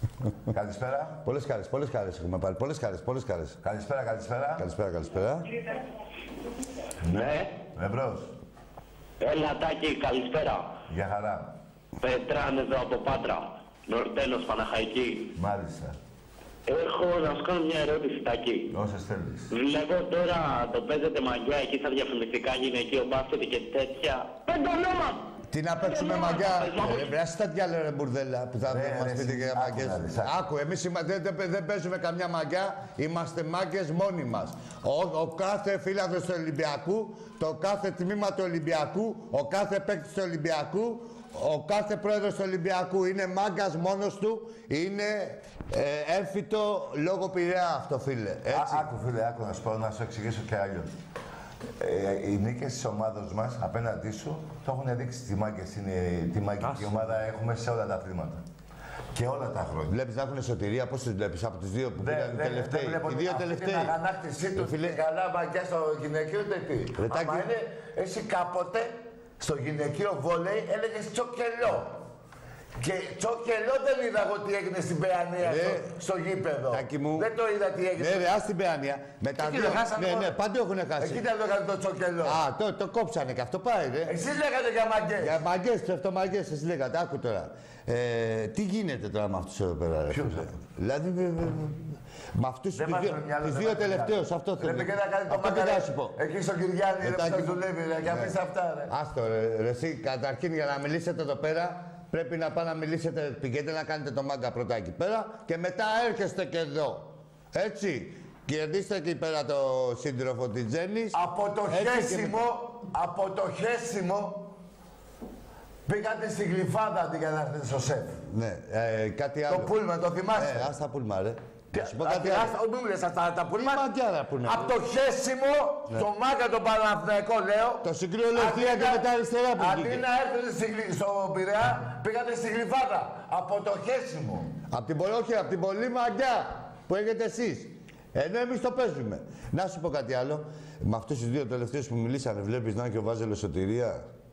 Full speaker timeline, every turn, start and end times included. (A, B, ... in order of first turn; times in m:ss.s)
0:00.5-0:01.2 A
0:01.2-0:03.6 B
0:03.6-0:04.7 A
0:04.6-0:05.5 B
0:07.0-0:08.3 A
0:07.1-0:07.5 C
0:09.2-0:10.7 C
0:10.9-0:11.5 A
0:12.0-0:15.2 C
0:15.4-0:16.0 A
0:16.7-0:18.7 C
0:18.7-0:19.5 A
0:19.5-0:25.3 C
0:25.5-0:48.9 B
0:25.8-0:27.1 C
0:28.7-0:30.4 A
0:48.5-0:50.9 A
0:51.8-0:58.4 A
0:56.6-0:57.2 B
0:59.1-0:59.9 A
0:59.9-1:03.9 B
1:02.0-1:12.0 A
1:04.5-1:05.0 B
1:07.0-1:07.5 B
1:12.8-1:18.3 A
1:15.4-1:15.9 B
1:16.7-1:17.3 B
1:18.0-1:21.2 B
1:19.4-1:20.3 A
1:21.0-1:22.4 A
1:22.2-1:24.1 B
1:24.0-1:25.4 A
1:25.2-1:36.2 B
1:30.1-1:30.5 A
1:32.7-1:38.9 A
1:37.0-1:38.4 B
1:38.9-1:51.2 B
1:51.1-1:54.5 A
1:51.7-1:52.4 B
1:55.8-1:58.2 A
1:58.3-1:59.7 B
1:59.5-2:00.7 A
2:00.4-2:02.5 B
2:01.7-2:03.8 A
2:03.5-2:04.7 B
2:04.4-2:09.0 A
2:07.8-2:10.0 B
2:09.6-2:14.5 A
2:14.7-2:24.0 B